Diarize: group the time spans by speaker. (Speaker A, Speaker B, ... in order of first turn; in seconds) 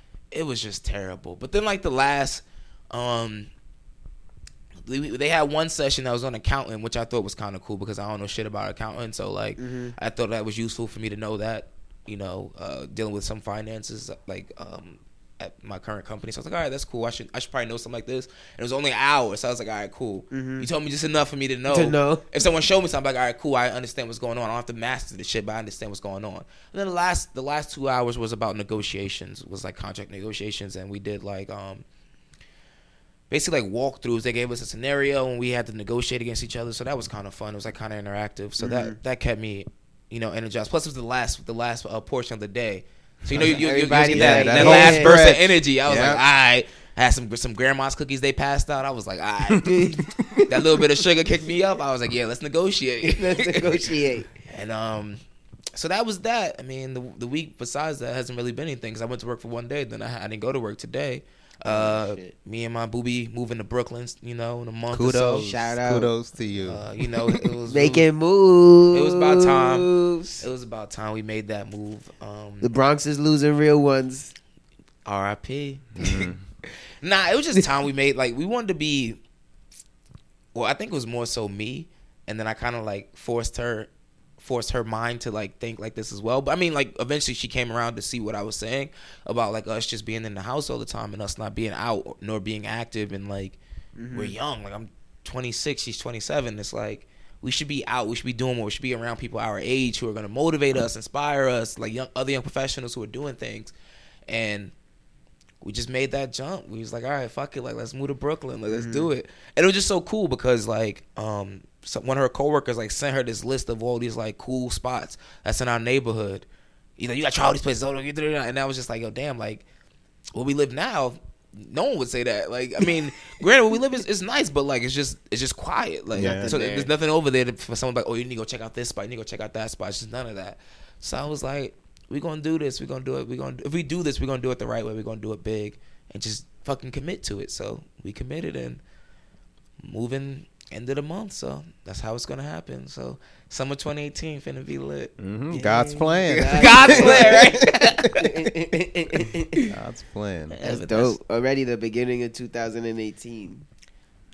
Speaker A: 0.3-3.5, 4.8-31.8, 33.3-49.9, 50.5-53.8, 54.5-55.2, 55.7-65.5, 66.6-68.1, 68.9-72.7, 75.0-76.3, 77.0-79.2, 80.5-93.6, 94.1-103.7, 104.3-104.7, 105.6-116.5, 117.0-119.6, 120.3-138.8, 139.8-145.1, 146.3-148.3, 150.5-151.2
Speaker B: 9.6-9.9, 20.3-20.7, 21.7-22.2, 38.6-39.0, 43.4-45.1, 49.7-50.8, 53.0-54.3, 61.6-62.3, 65.3-66.1, 67.7-70.4, 72.6-74.3, 94.0-94.3, 108.7-109.1, 126.1-126.9, 145.5-149.7, 150.6-153.7
Speaker C: 43.3-43.6, 44.1-46.2, 64.9-66.8, 76.0-76.4, 126.2-126.5, 145.2-147.8, 149.7-150.6